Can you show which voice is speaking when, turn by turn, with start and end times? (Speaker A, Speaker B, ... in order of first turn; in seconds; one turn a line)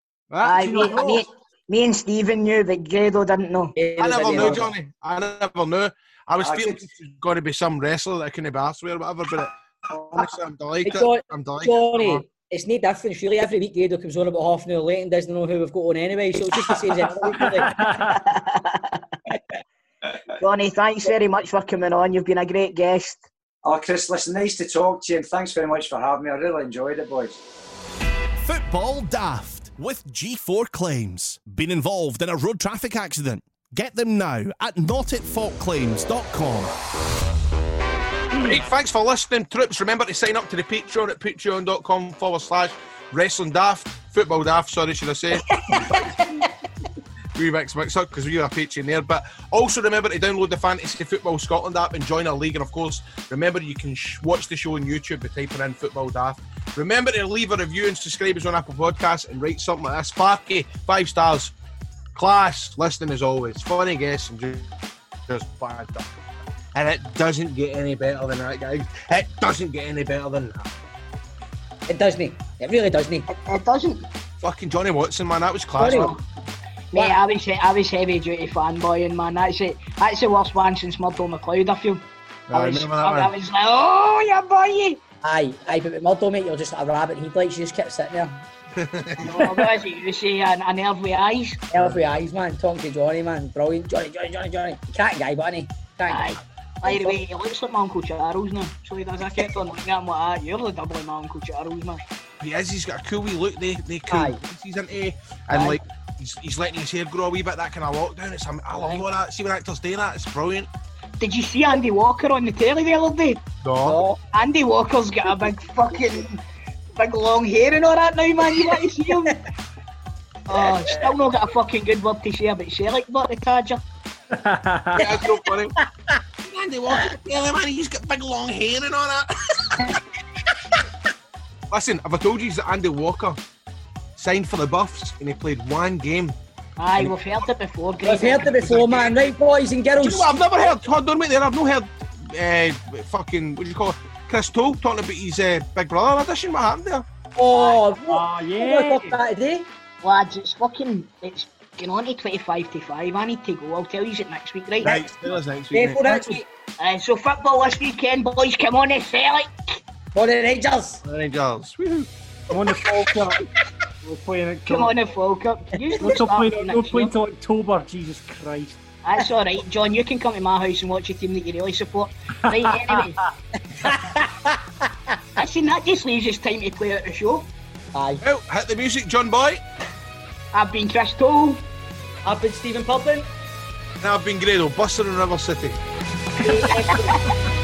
Speaker A: 0.3-1.3
Speaker B: 0.4-3.8
Speaker C: 3.8-4.7
Speaker A: 4.0-12.2
Speaker D: 6.4-7.1
Speaker C: 10.8-17.7
Speaker E: 17.4-18.2
Speaker B: 18.1-19.0
Speaker B: 20.4-23.2
Speaker D: 23.6-27.4
Speaker F: 28.4-36.7
Speaker A: 38.4-46.3
Speaker C: 45.7-46.1
Speaker A: 47.4-61.5
Speaker A: 62.1-64.7
Speaker A: 65.3-66.1
Speaker A: 66.7-70.7
Speaker C: 71.9-73.3
Speaker B: 73.3-74.1
Speaker A: 74.4-76.2
Speaker C: 75.8-76.2
Speaker B: 76.9-85.0
Speaker A: 82.5-83.3
Speaker C: 85.2-88.5
Speaker A: 88.8-89.6
Speaker B: 89.2-91.6
Speaker C: 91.7-97.2
Speaker B: 96.1-102.0
Speaker A: 102.4-110.7
Speaker C: 104.1-104.4
Speaker B: 111.2-113.4
Speaker A: 113.6-114.0
Speaker C: 113.8-114.2
Speaker B: 114.3-116.4
Speaker B: 117.0-119.4
Speaker B: 120.5-123.8
Speaker E: 124.3-125.1
Speaker A: 125.0-125.8
Speaker A: 126.4-130.0
Speaker A: 131.7-133.4
Speaker A: 134.2-136.4
Speaker B: 136.8-138.8
Speaker C: 138.1-140.3
Speaker A: 138.6-139.1
Speaker A: 140.0-147.1
Speaker C: 147.4-149.7
Speaker E: 148.1-149.2
Speaker B: 150.0-155.1
Speaker A: 154.8-156.3
Speaker C: 155.7-156.5
Speaker B: 156.8-159.8
Speaker C: 160.1-161.0
Speaker A: 161.0-163.1
Speaker E: 162.5-163.5
Speaker E: 164.0-164.9
Speaker B: 164.7-167.1
Speaker E: 166.0-168.8
Speaker B: 169.1-173.2
Speaker C: 173.7-175.2
Speaker B: 175.4-177.5
Speaker C: 177.9-178.2
Speaker A: 178.2-179.6
Speaker B: 180.5-181.7
Speaker C: 182.2-183.3
Speaker A: 184.0-185.8
Speaker C: 186.4-187.2